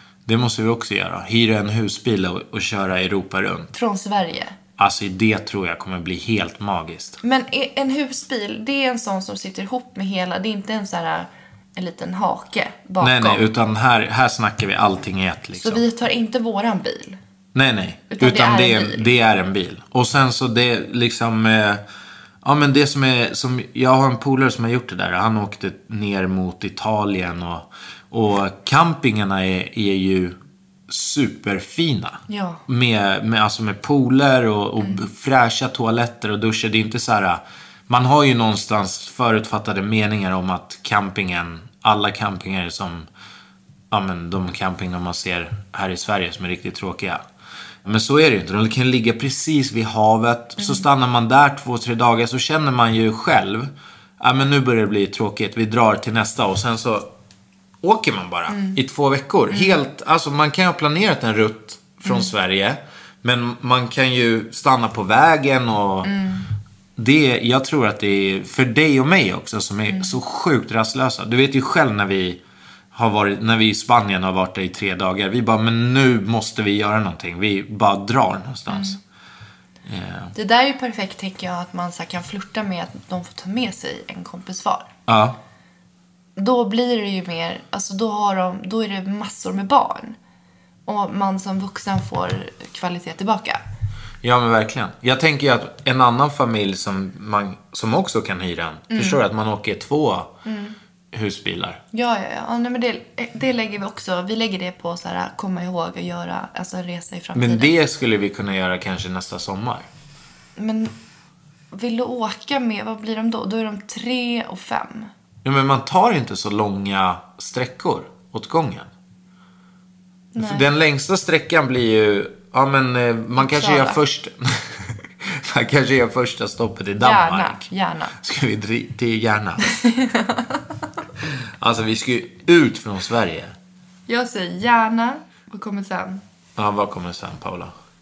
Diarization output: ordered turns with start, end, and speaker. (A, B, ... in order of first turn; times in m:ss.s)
0:00.3-0:03.7 A
0:03.7-0:04.6 B
0:04.8-0:07.2 A
0:07.2-0:13.5 B
0:13.0-0:15.8 A
0:15.6-0:17.2 B
0:17.5-0:21.8 A
0:18.1-0:19.1 B
0:22.4-0:30.4 A
0:30.9-0:43.1 A
0:32.3-0:32.6 B
0:34.8-0:35.0 B
0:43.9-0:47.2 A
0:47.8-0:57.1 A
0:50.6-0:50.8 B
0:57.8-1:06.1 A
0:58.5-0:58.8 B
0:59.5-0:59.8 B
1:02.0-1:02.3 B
1:06.0-1:06.5 B
1:07.0-1:12.4 A
1:09.9-1:10.2 B
1:12.9-1:19.0 A
1:18.7-1:19.0 B
1:19.9-1:20.3 A
1:20.4-1:24.9 B
1:25.1-1:25.4 A
1:26.4-1:30.2 B
1:30.9-1:33.6 B
1:34.2-1:40.3 A
1:38.9-1:39.2 B
1:40.4-1:40.8 B
1:41.1-1:41.8 A
1:41.9-1:47.7 B
1:47.4-1:49.9 A
1:50.6-1:50.9 B
1:51.7-1:55.1 B
1:55.4-1:58.9 A
2:00.3-2:00.6 B
2:00.4-2:07.6 A
2:03.4-2:04.0 B
2:07.0-2:08.1 B
2:08.2-2:09.6 A
2:09.6-2:10.7 B
2:11.6-2:13.5 A
2:14.1-2:16.2 B
2:16.6-2:17.7 A